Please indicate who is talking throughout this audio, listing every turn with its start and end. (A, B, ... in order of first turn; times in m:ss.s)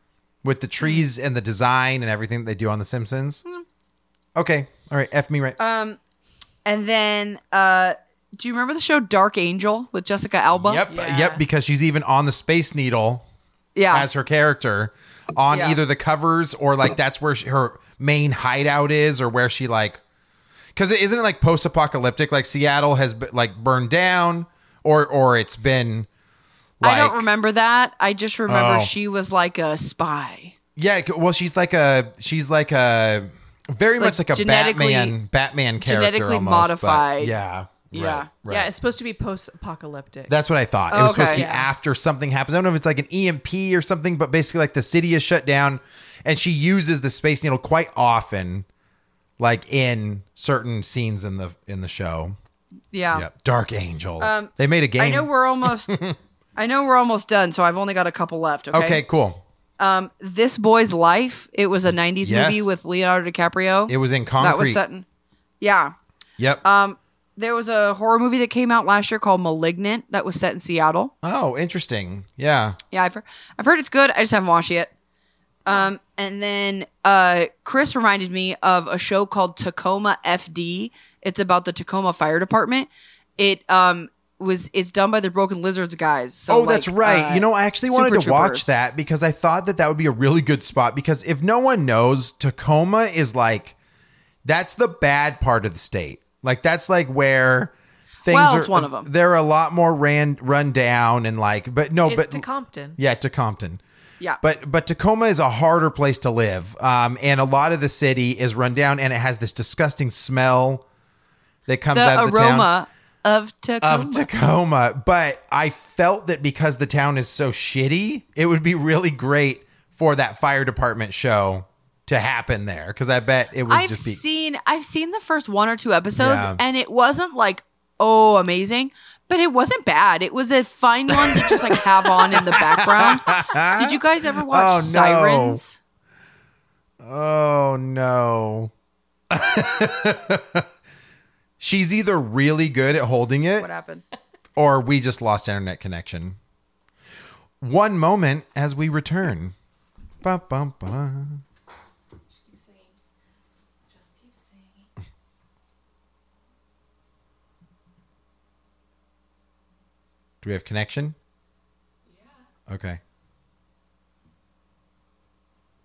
0:00.4-0:03.4 A
0:04.4-0:05.6 A
0:05.6-0:06.0 B
0:06.6-0:10.8 B
0:10.6-0:13.2 A
0:10.9-0:11.4 C
0:13.7-0:14.1 B
0:13.9-0:20.0 A
0:15.5-0:15.8 B
0:20.7-0:26.1 A
0:26.8-0:27.2 A
0:26.8-0:30.5 B
0:28.5-0:28.9 A
0:30.8-0:38.7 A
0:34.0-0:35.2 B
0:35.8-0:37.3 B
0:37.9-0:38.3 B
0:38.5-0:40.3 C
0:40.3-0:48.6 A
0:40.9-0:41.4 B
0:41.2-0:41.7 C
0:49.4-0:52.4 A
0:52.9-0:53.2 B
0:53.1-0:56.2 A
0:54.2-0:56.0 B
0:56.6-0:59.0 B
0:58.7-0:59.4 A
0:59.8-1:05.0 B
1:02.2-1:02.7 A
1:03.9-1:04.8 A
1:05.6-1:05.9 B
1:06.6-1:11.1 B
1:11.2-1:12.8 A
1:12.9-1:14.9 B
1:15.6-1:28.7 B
1:26.5-1:33.7 A
1:34.4-1:37.7 A
1:38.2-1:42.4 A
1:38.3-1:39.1 B
1:42.0-1:43.0 C
1:43.0-1:43.8 A
1:44.4-1:50.8 A
1:51.7-1:52.7 A
1:51.9-1:54.3 B
1:53.8-2:04.2 A
2:03.7-2:15.8 B
2:06.2-2:06.6 A
2:11.1-2:15.6 A
2:17.0-2:18.7 A
2:19.3-2:20.6 A
2:21.6-2:23.7 A
2:23.6-2:24.0 B
2:24.6-2:26.4 A
2:27.6-2:29.5 A
2:30.2-2:31.4 A
2:32.3-2:33.0 C
2:33.9-2:34.9 C
2:40.4-2:41.2 A
2:42.7-2:43.0 A